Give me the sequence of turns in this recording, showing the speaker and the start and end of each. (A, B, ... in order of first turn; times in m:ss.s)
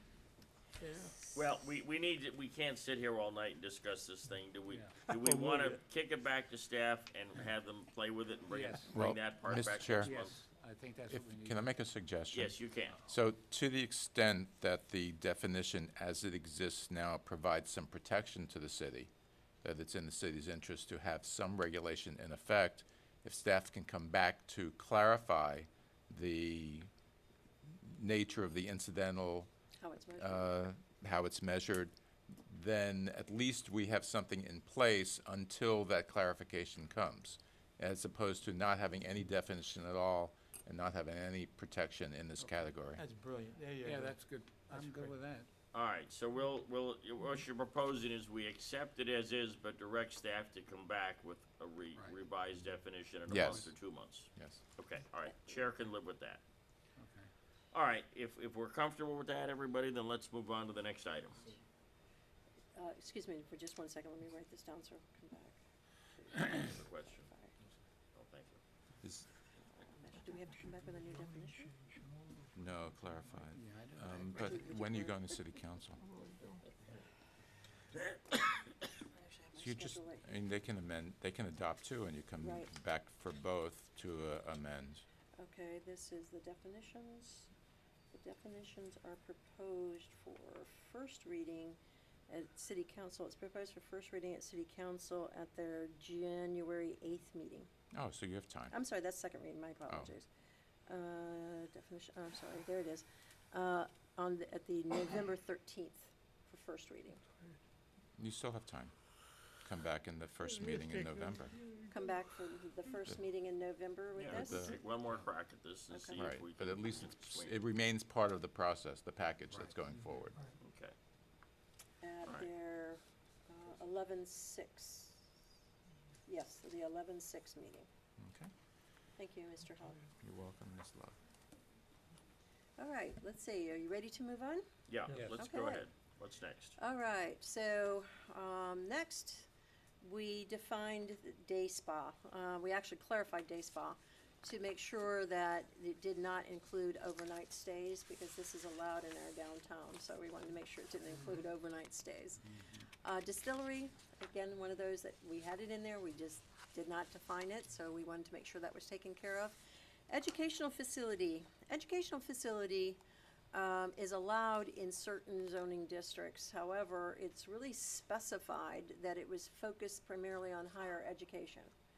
0:00.8-0:01.1 A
0:00.9-0:01.6 B
0:01.3-0:10.4 C
0:04.7-0:05.0 D
0:05.3-0:05.8 A
0:08.5-0:08.9 D
0:08.9-0:10.1 E
0:10.0-0:11.7 D
0:11.1-0:19.1 E
0:12.3-0:13.0 C
0:19.6-0:26.9 E
0:27.7-0:29.5 E
0:29.8-0:30.5 B
0:30.2-0:43.0 E
0:43.0-0:45.2 A
0:43.8-0:45.5 D
0:45.7-0:56.4 C
0:53.3-0:53.7 E
0:54.3-0:54.6 E
0:55.2-0:55.6 B
0:57.0-0:57.3 D
0:57.7-1:01.5 C
1:02.7-1:05.6 B
1:06.1-1:07.5 B
1:06.5-1:07.3 C
1:08.1-1:08.6 C
1:09.0-1:09.3 E
1:09.8-1:11.7 B
1:10.6-1:12.5 A
1:12.5-1:16.0 E
1:13.5-1:14.2 D
1:14.3-1:15.3 B
1:16.0-1:16.6 A
1:19.2-1:20.2 B
1:19.6-1:25.0 E
1:22.4-1:22.7 B
1:25.4-1:27.5 B
1:28.1-1:37.7 B
1:37.9-1:38.7 E
1:38.7-1:40.3 B
1:40.9-1:47.2 B
1:48.2-1:48.9 E
1:49.6-1:51.6 E
1:51.8-1:54.8 B
1:54.1-1:57.6 C
1:54.3-1:54.7 E
1:55.9-1:56.2 B
1:56.1-2:00.4 E
2:00.6-2:00.9 C
2:02.0-2:05.2 B
2:06.3-2:07.9 B
2:08.2-2:08.5 E
2:09.2-2:10.0 B
2:10.2-2:11.2 E
2:12.8-2:14.6 B
2:14.9-2:16.8 C
2:15.2-2:15.8 B
2:16.8-2:19.5 B
2:20.0-2:32.4 B
2:33.0-2:39.6 B
2:40.1-2:43.0 B
2:43.5-2:51.7 B